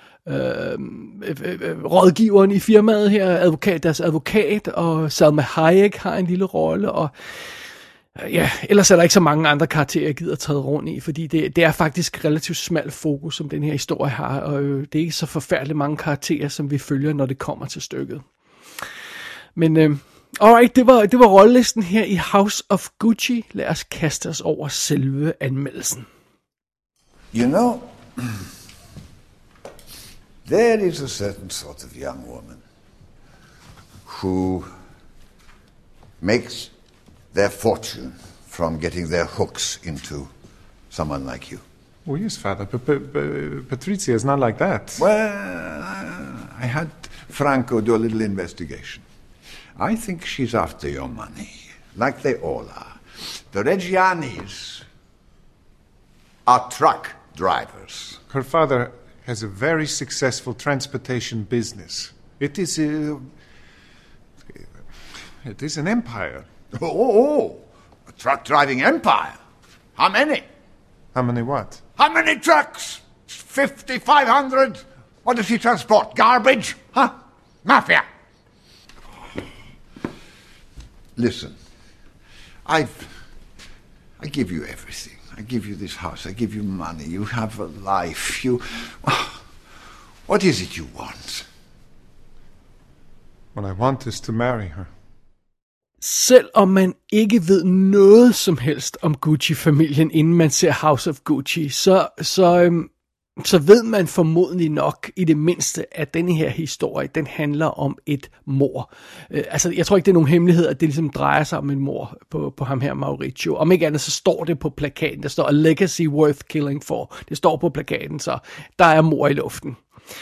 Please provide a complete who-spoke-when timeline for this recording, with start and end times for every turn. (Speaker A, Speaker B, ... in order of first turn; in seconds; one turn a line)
Speaker A: 0.3-7.1
Speaker A: 8.2-18.2
Speaker A: 19.6-26.1
Speaker B: 27.3-28.5
Speaker B: 30.4-32.6
Speaker B: 34.0-34.7
Speaker B: 36.2-36.7
Speaker B: 37.3-40.3
Speaker B: 40.9-41.6
Speaker C: 42.1-45.0
Speaker B: 45.0-49.0
Speaker B: 49.8-54.9
Speaker B: 56.5-58.2
Speaker C: 58.3-63.2
Speaker C: 65.4-66.5
Speaker B: 66.7-69.4
Speaker B: 70.0-70.5
Speaker C: 71.1-71.8
Speaker B: 72.0-78.1
Speaker B: 81.2-81.6
Speaker B: 82.7-83.2
Speaker B: 84.2-89.5
Speaker B: 90.3-91.5
Speaker C: 93.5-94.9
Speaker A: 96.0-119.8